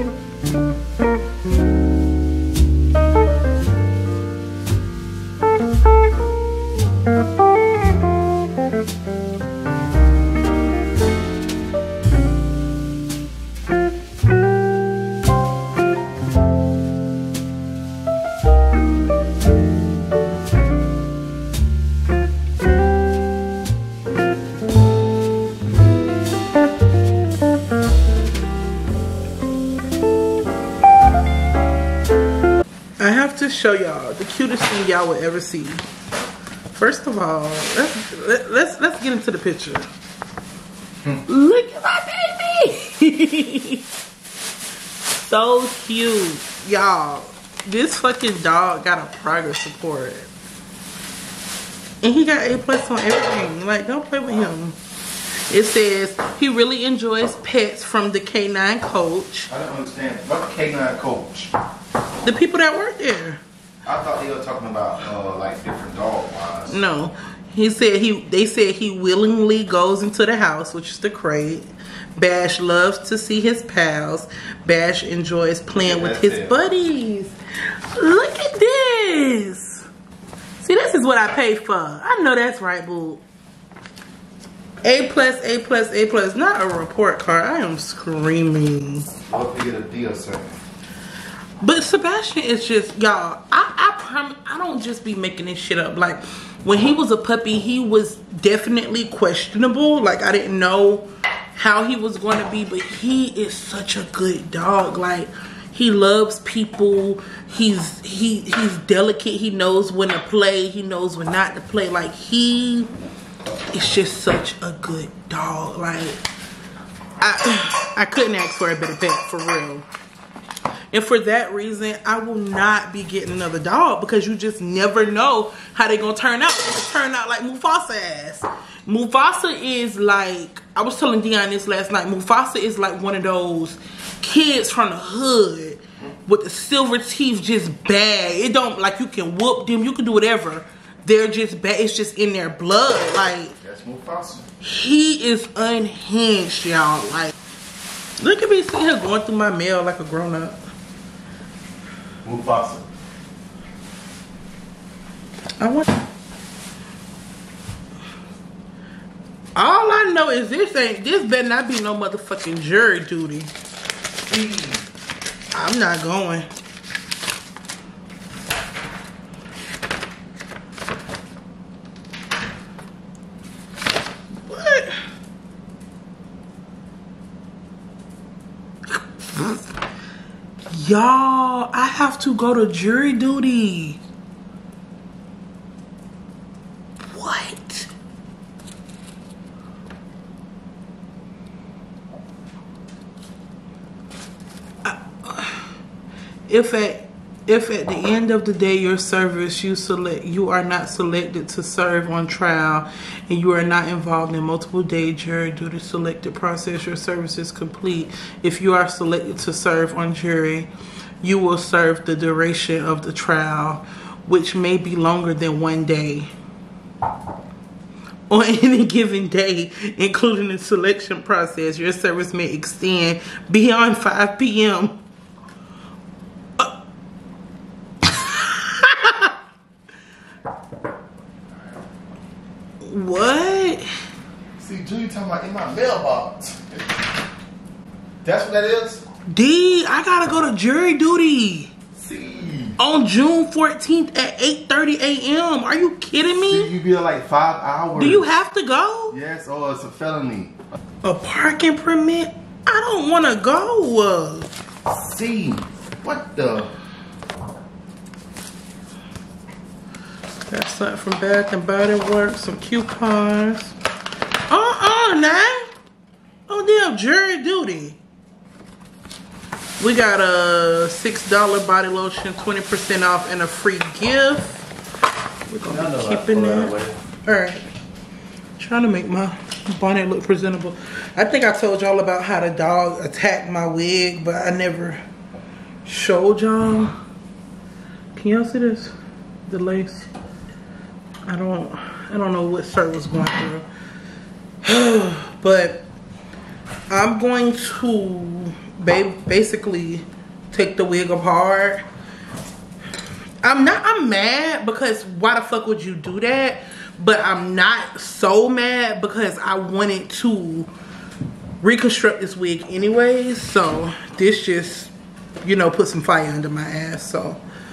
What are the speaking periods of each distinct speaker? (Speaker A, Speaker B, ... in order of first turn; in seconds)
Speaker A: 33.0-35.8, 36.7-39.9, 41.2-43.8, 45.1-50.3, 52.0-54.8, 55.5-59.5, 62.2-63.4, 66.7-77.3, 77.9-79.8, 80.6-83.2, 84.8-89.1, 91.6-112.9, 113.7-116.2, 117.2-119.8, 120.9-143.5, 144.6-147.3, 148.2-150.6, 155.6-155.9, 159.6-163.5, 165.5-166.5, 174.4-175.0, 178.9-179.7, 180.7-184.0, 187.1-187.9, 194.8-195.7, 196.5-210.7, 211.2-216.3, 218.3-224.9, 228.1-229.3, 232.8-233.8, 239.3-241.7, 242.8-246.7, 247.9-249.2, 251.0-254.5, 260.5-263.7, 264.5-265.7, 266.5-268.0, 269.8-274.7, 275.5-277.6, 278.6-285.0, 285.8-286.9, 288.1-288.9, 289.4-290.1, 291.3-293.6, 294.6-295.9, 296.9-301.8, 303.4-310.7, 311.6-314.9, 315.4-317.4
Speaker B: 59.5-61.5, 63.9-66.8, 75.7-76.6, 89.3-90.5, 143.6-144.5, 152.2-152.9, 164.3-164.8, 234.6-236.8, 238.2-239.0, 241.9-242.8, 246.4-248.3, 249.1-250.6, 254.9-256.7, 275.6-277.0